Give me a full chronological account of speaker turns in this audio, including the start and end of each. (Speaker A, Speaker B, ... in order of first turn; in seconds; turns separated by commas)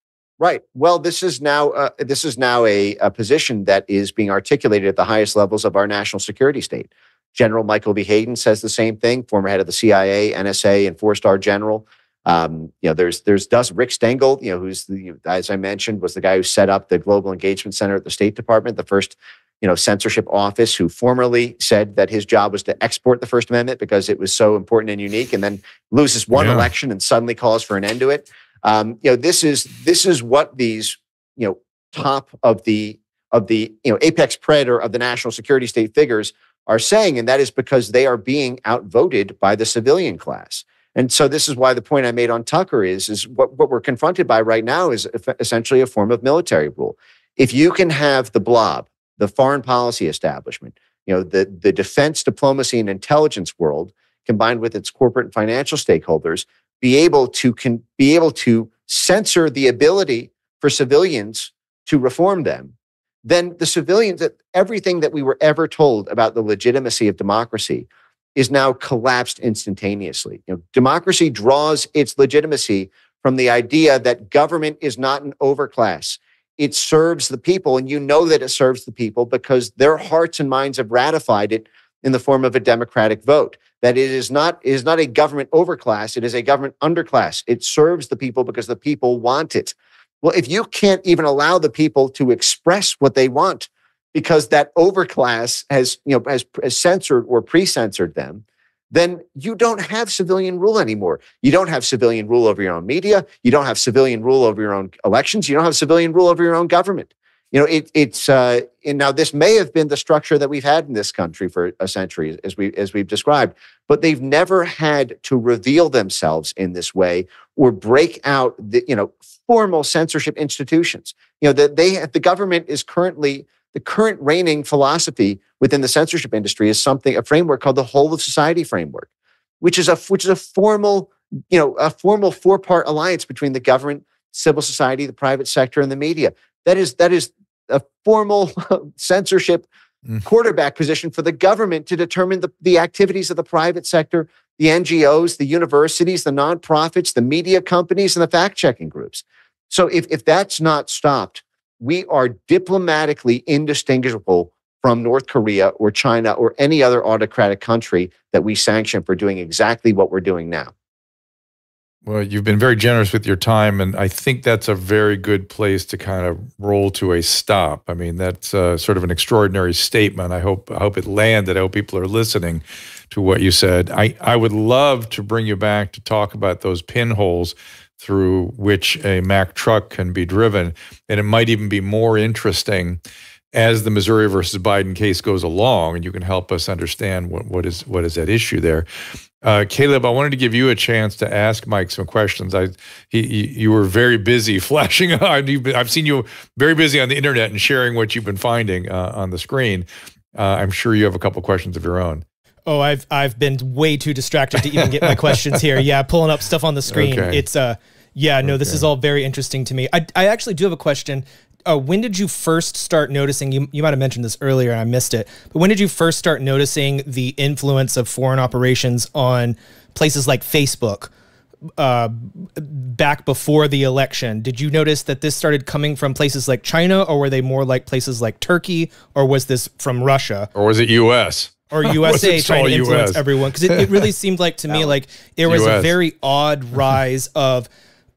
Speaker A: 0.4-129.1, Speaker B: 26.3-26.7, Speaker A: 129.6-139.7, Speaker A: 140.2-160.7, Speaker B: 162.0-183.0, Speaker B: 183.5-188.9, Speaker B: 189.4-202.2, Speaker C: 202.7-221.1, Speaker B: 204.6-205.8, Speaker B: 206.9-207.4, Speaker B: 208.4-208.8, Speaker C: 221.8-230.5, Speaker B: 230.5-234.1, Speaker C: 231.7-237.7, Speaker B: 235.4-235.9